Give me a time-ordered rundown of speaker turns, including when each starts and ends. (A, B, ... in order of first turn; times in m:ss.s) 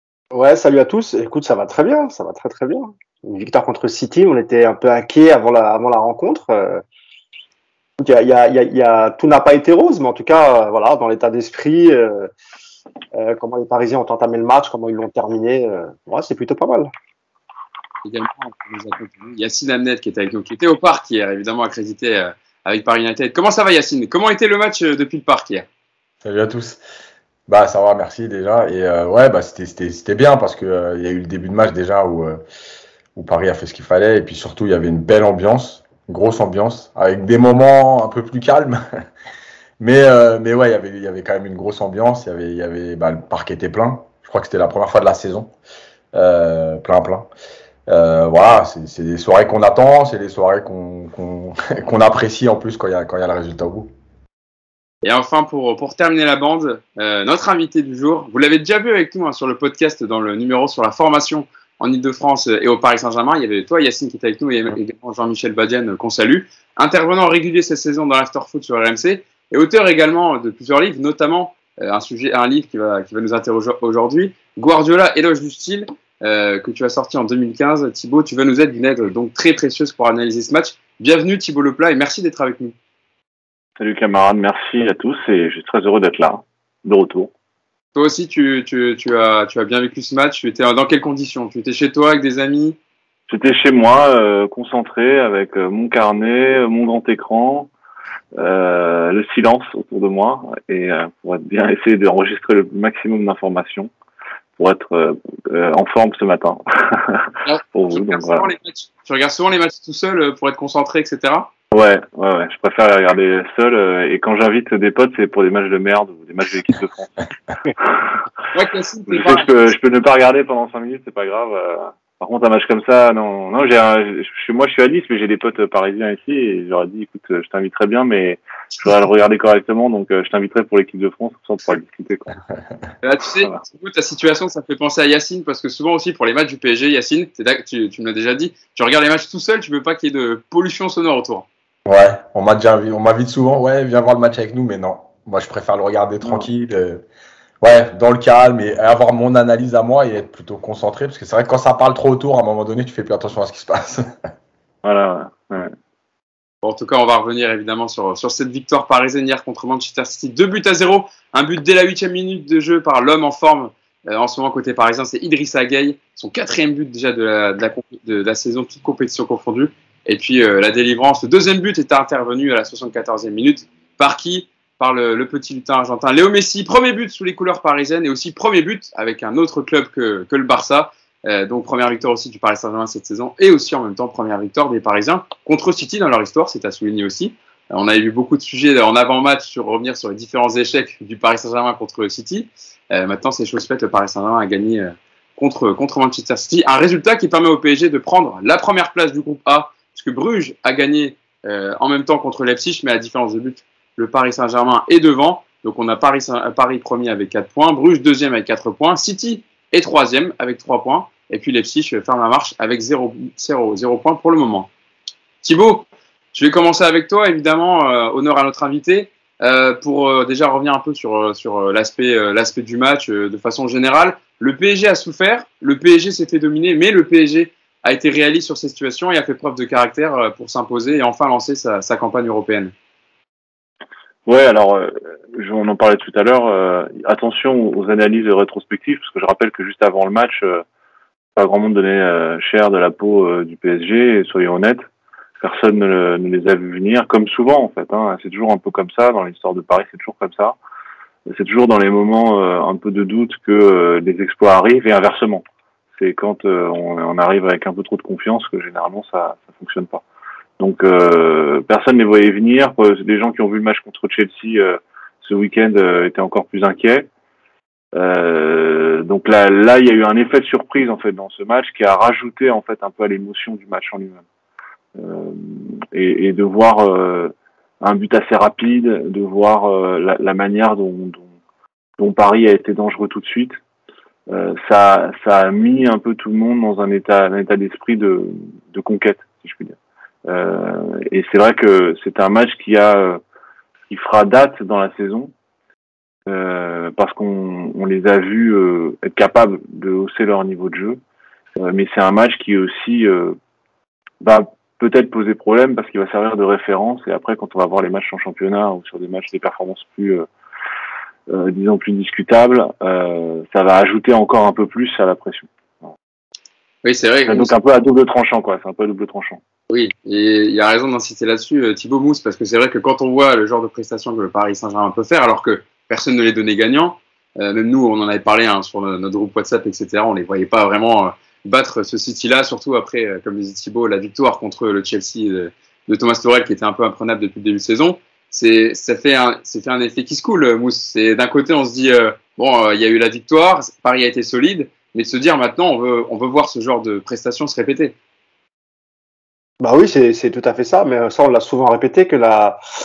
0:00.3-0:06.8 A
0:08.0-0:12.3 A
0:13.1-0:16.9 A
0:18.0-0:25.7 B
0:26.2-0:26.8 C
0:27.5-0:32.4 C
0:33.2-0:38.8 C
0:39.8-0:45.5 C
0:46.1-0:47.3 C
0:47.9-0:53.9 C
0:55.0-1:22.8 B
1:23.8-1:27.3 D
1:28.0-1:32.8 B
1:33.3-1:37.7 D
1:38.4-1:43.9 D
1:44.6-1:48.5 D
1:47.4-1:51.5 B
1:51.7-1:58.0 D
1:58.5-1:59.5 B
1:59.1-2:12.4 D
2:13.0-2:21.5 B
2:21.9-2:27.0 C
2:27.6-2:34.1 C
2:34.8-2:35.7 D
2:36.6-3:34.7 B
3:35.4-3:52.7 B
3:54.3-4:00.6 D
4:01.4-4:04.8 D
4:05.4-4:10.6 D
4:11.3-4:15.4 D
4:16.0-4:20.0 D
4:20.6-4:27.1 D
4:27.9-4:34.2 D
4:35.0-4:41.3 D
4:42.0-4:43.6 D
4:44.3-4:53.2 D
4:53.9-4:55.3 D
4:56.3-5:01.0 D
5:01.6-5:03.4 D
5:04.2-5:10.3 D
5:11.3-5:15.9 D
5:16.8-5:17.5 B
5:17.3-5:19.4 D
5:19.7-5:48.0 B
5:49.6-5:52.6 A